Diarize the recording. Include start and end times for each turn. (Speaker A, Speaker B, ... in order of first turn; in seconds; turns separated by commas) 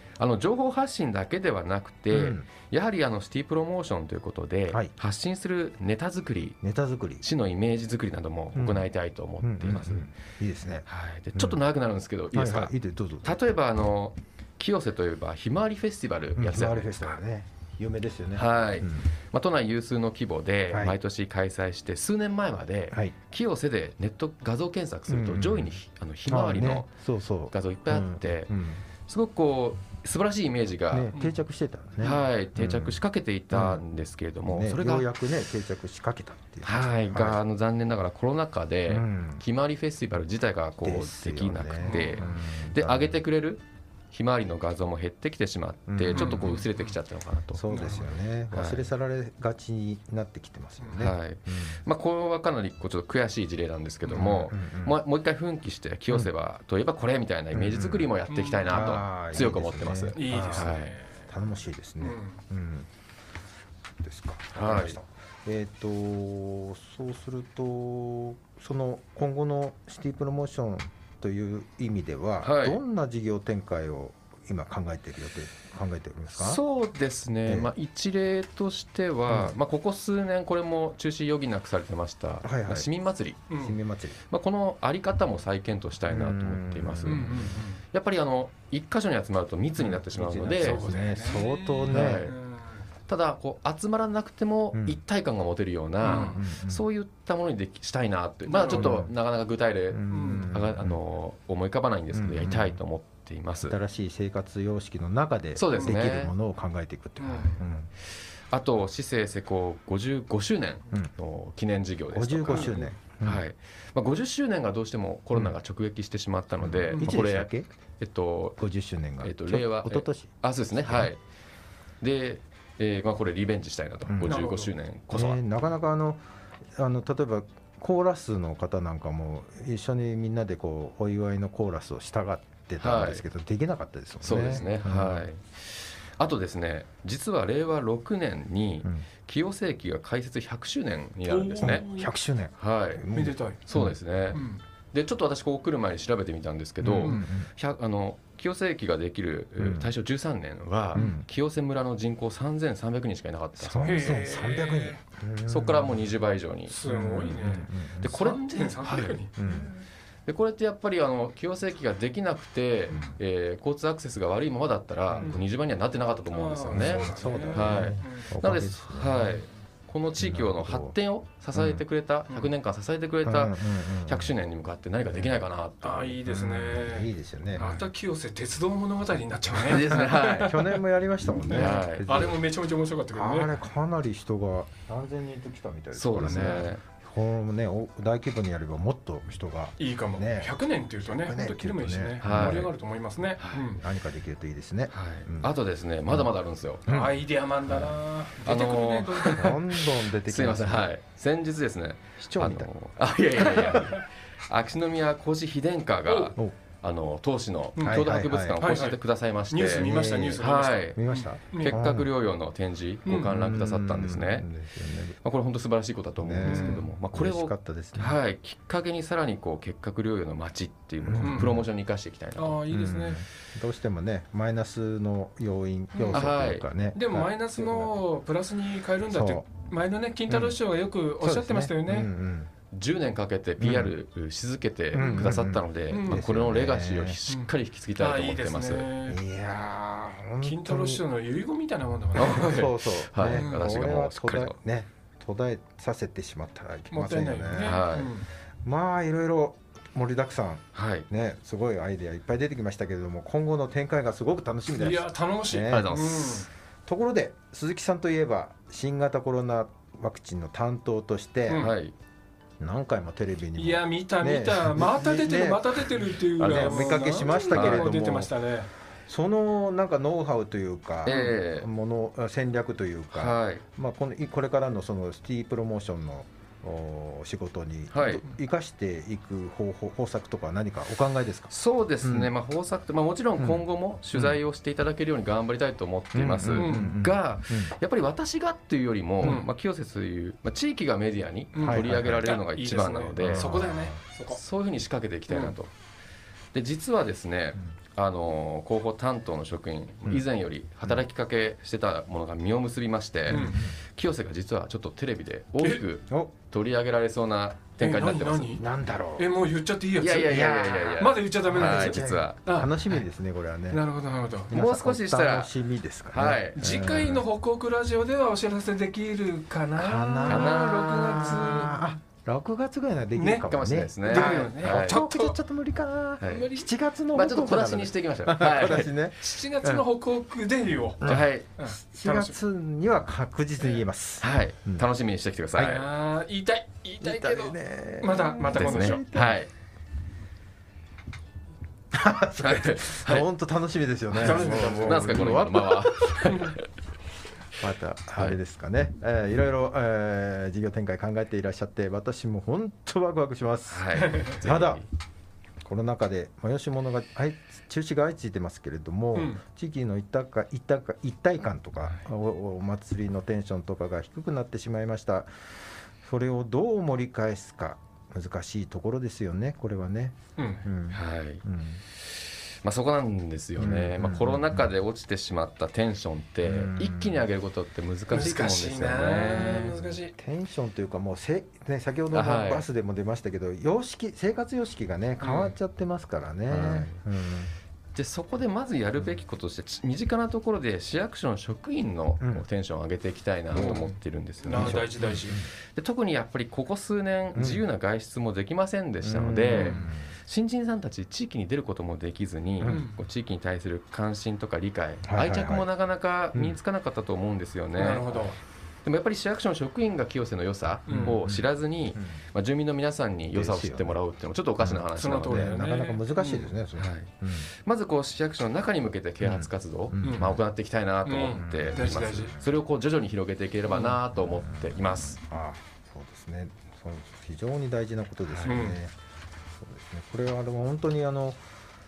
Speaker A: 0.2-6.6, Speaker B: 2.1-2.5, Speaker B: 6.6-7.2, Speaker A: 7.2-10.1, Speaker B: 8.5-8.8, Speaker B: 9.4-11.6, Speaker A: 10.9-12.7, Speaker B: 12.3-13.3, Speaker A: 13.2-17.2, Speaker B: 16.4-19.1, Speaker A: 18.3-26.9, Speaker B: 20.7-21.0, Speaker B: 25.1-25.7, Speaker B: 26.2-28.8, Speaker A: 27.5-28.5, Speaker A: 29.1-31.1, Speaker B: 30.9-33.0, Speaker A: 32.0-35.1, Speaker B: 33.5-33.8, Speaker B: 34.5-37.4, Speaker A: 36.6-47.9, Speaker B: 38.9-39.4, Speaker B: 40.8-43.2, Speaker C: 41.8-42.3, Speaker B: 45.9-46.6, Speaker C: 46.1-47.0, Speaker B: 47.5-51.8, Speaker C: 47.7-48.1, Speaker A: 48.5-48.9, Speaker C: 50.8-51.1, Speaker A: 51.0-61.0, Speaker B: 54.1-55.0, Speaker B: 57.5-58.1, Speaker C: 58.3-58.9, Speaker B: 58.6-62.9, Speaker C: 60.1-61.3, Speaker C: 62.0-62.4, Speaker B: 64.0-76.6, Speaker A: 64.5-65.0, Speaker A: 72.4-72.8, Speaker A: 76.3-83.4, Speaker B: 79.3-79.5, Speaker B: 82.4-82.8, Speaker B: 83.5-84.2, Speaker C: 83.5-83.7, Speaker A: 84.3-91.0, Speaker B: 86.1-87.6, Speaker C: 87.0-87.8, Speaker B: 89.8-92.2, Speaker C: 90.3-92.8, Speaker A: 91.9-92.4, Speaker A: 93.1-103.8, Speaker B: 94.7-95.0, Speaker B: 96.0-96.8, Speaker C: 96.0-96.4, Speaker C: 98.5-99.0, Speaker B: 98.6-99.1, Speaker B: 99.9-101.0, Speaker C: 100.1-100.5, Speaker B: 102.1-102.8, Speaker B: 103.7-107.9, Speaker A: 105.5-106.3, Speaker C: 105.7-106.0, Speaker C: 107.2-107.6, Speaker A: 108.5-118.6, Speaker B: 112.1-113.4, Speaker C: 112.5-112.8, Speaker B: 116.6-117.7, Speaker C: 116.9-117.1, Speaker B: 118.6-121.1, Speaker A: 119.2-121.2, Speaker A: 122.0-125.4, Speaker B: 124.0-124.5, Speaker C: 124.2-124.7, Speaker B: 125.1-135.3, Speaker A: 132.8-133.2, Speaker A: 134.2-141.9, Speaker C: 134.4-134.7, Speaker C: 141.3-142.1, Speaker B: 141.6-144.4, Speaker A: 142.6-143.1, Speaker C: 143.1-143.6, Speaker A: 143.6-154.2, Speaker C: 144.3-144.6, Speaker B: 146.8-147.5, Speaker B: 149.6-149.9, Speaker B: 150.9-151.2, Speaker B: 153.6-156.0, Speaker C: 153.8-155.0, Speaker A: 155.5-156.7, Speaker C: 156.7-159.3, Speaker B: 156.9-158.3, Speaker A: 157.3-159.7, Speaker B: 158.9-159.7, Speaker A: 160.2-176.2, Speaker B: 165.1-165.3, Speaker C: 166.3-168.3, Speaker B: 166.7-169.4, Speaker B: 170.2-170.9, Speaker B: 171.5-171.8, Speaker B: 173.2-174.3, Speaker C: 175.8-180.8, Speaker B: 176.2-177.7, Speaker A: 179.7-180.6, Speaker B: 179.7-182.4, Speaker C: 181.4-183.5, Speaker A: 181.5-182.3, Speaker B: 183.1-190.5, Speaker A: 185.9-186.8, Speaker C: 186.2-186.6, Speaker C: 189.8-193.8, Speaker B: 191.1-192.7, Speaker A: 192.2-192.7, Speaker A: 193.4-193.7, Speaker B: 193.6-195.5, Speaker A: 194.9-196.8, Speaker C: 196.9-199.5, Speaker A: 198.4-199.6, Speaker B: 199.3-200.9, Speaker A: 200.3-214.5, Speaker B: 202.2-202.7, Speaker B: 203.3-203.9, Speaker C: 203.6-204.0, Speaker C: 206.1-206.3, Speaker C: 207.8-208.0, Speaker B: 207.8-208.6, Speaker C: 208.6-211.8, Speaker B: 209.7-212.1, Speaker B: 213.3-215.2, Speaker A: 215.2-222.6, Speaker B: 216.2-218.2, Speaker C: 216.4-216.8, Speaker B: 221.0-221.7, Speaker C: 221.2-221.5, Speaker C: 222.3-223.2, Speaker B: 222.7-227.9, Speaker C: 225.9-226.3, Speaker A: 226.1-226.6, Speaker C: 226.9-232.1, Speaker B: 229.1-229.4, Speaker B: 230.3-230.6, Speaker B: 231.2-232.5, Speaker A: 232.7-238.9, Speaker B: 233.6-233.9, Speaker B: 234.9-237.2, Speaker C: 235.0-236.2, Speaker C: 237.3-239.2, Speaker B: 239.1-241.0, Speaker C: 240.4-242.7, Speaker B: 242.2-247.8, Speaker A: 242.2-244.5, Speaker C: 243.3-243.7, Speaker C: 246.9-248.3, Speaker A: 247.6-248.1, Speaker B: 248.6-256.0, Speaker A: 250.7-251.0, Speaker C: 254.7-256.5, Speaker A: 255.7-256.4, Speaker B: 256.9-261.7, Speaker A: 261.5-261.9, Speaker B: 262.6-268.3, Speaker C: 263.6-268.7, Speaker A: 266.4-267.9, Speaker B: 269.1-281.5, Speaker A: 271.0-271.7, Speaker C: 271.1-271.4, Speaker A: 273.1-273.6, Speaker A: 277.9-278.2, Speaker A: 281.5-293.7, Speaker B: 282.0-282.3, Speaker B: 286.1-287.7, Speaker C: 286.6-286.9, Speaker C: 289.2-289.5, Speaker C: 291.5-294.4, Speaker B: 291.6-292.4, Speaker B: 293.2-293.9, Speaker A: 294.3-295.7, Speaker C: 295.3-295.5, Speaker A: 296.5-308.6, Speaker C: 303.3-303.6, Speaker B: 303.3-303.7, Speaker C: 307.8-308.6, Speaker B: 308.6-309.3, Speaker C: 309.2-313.0, Speaker A: 310.0-312.4, Speaker B: 310.2-313.8, Speaker C: 313.7-314.5, Speaker B: 314.5-317.2, Speaker A: 314.5-315.5, Speaker A: 316.1-316.9, Speaker C: 316.5-321.8, Speaker B: 319.8-329.8, Speaker A: 320.2-321.7, Speaker C: 323.1-323.5, Speaker A: 323.4-325.1, Speaker C: 324.0-325.4, Speaker A: 326.2-326.5, Speaker C: 326.2-326.7, Speaker A: 327.1-328.9, Speaker C: 329.2-332.3, Speaker B: 331.0-334.8, Speaker A: 331.0-331.5, Speaker A: 334.2-335.9, Speaker C: 335.6-339.0, Speaker B: 337.0-339.4, Speaker A: 338.5-339.5, Speaker B: 341.9-346.3, Speaker A: 342.4-343.2, Speaker C: 344.2-345.4, Speaker A: 344.2-346.6, Speaker B: 347.6-354.8, Speaker A: 353.7-354.8, Speaker C: 354.1-354.3, Speaker B: 355.6-365.3, Speaker C: 359.1-359.4, Speaker B: 366.0-371.8, Speaker C: 370.4-370.6, Speaker A: 370.9-371.4, Speaker A: 371.9-379.8, Speaker B: 373.6-374.7, Speaker B: 376.4-377.3, Speaker C: 378.1-380.1, Speaker B: 379.1-387.5, Speaker A: 382.1-382.6, Speaker A: 386.5-386.9, Speaker A: 387.9-394.9, Speaker B: 392.2-392.4, Speaker B: 393.5-393.8, Speaker C: 393.5-395.4, Speaker B: 394.5-395.5, Speaker A: 395.7-408.2, Speaker B: 397.3-397.6, Speaker B: 399.0-400.1, Speaker C: 399.5-399.8, Speaker B: 402.6-402.8, Speaker C: 402.6-402.9, Speaker B: 405.1-405.6, Speaker C: 407.8-408.4, Speaker A: 408.8-415.6, Speaker C: 410.9-411.1, Speaker B: 410.9-412.2, Speaker B: 413.3-413.9, Speaker B: 414.6-417.5, Speaker C: 414.9-416.5, Speaker A: 416.8-417.1, Speaker A: 417.6-425.2, Speaker B: 419.2-420.4, Speaker C: 420.0-420.3, Speaker C: 421.1-422.3, Speaker B: 421.3-422.4, Speaker B: 424.2-428.9, Speaker A: 428.3-428.7, Speaker C: 428.5-428.8, Speaker B: 429.6-431.4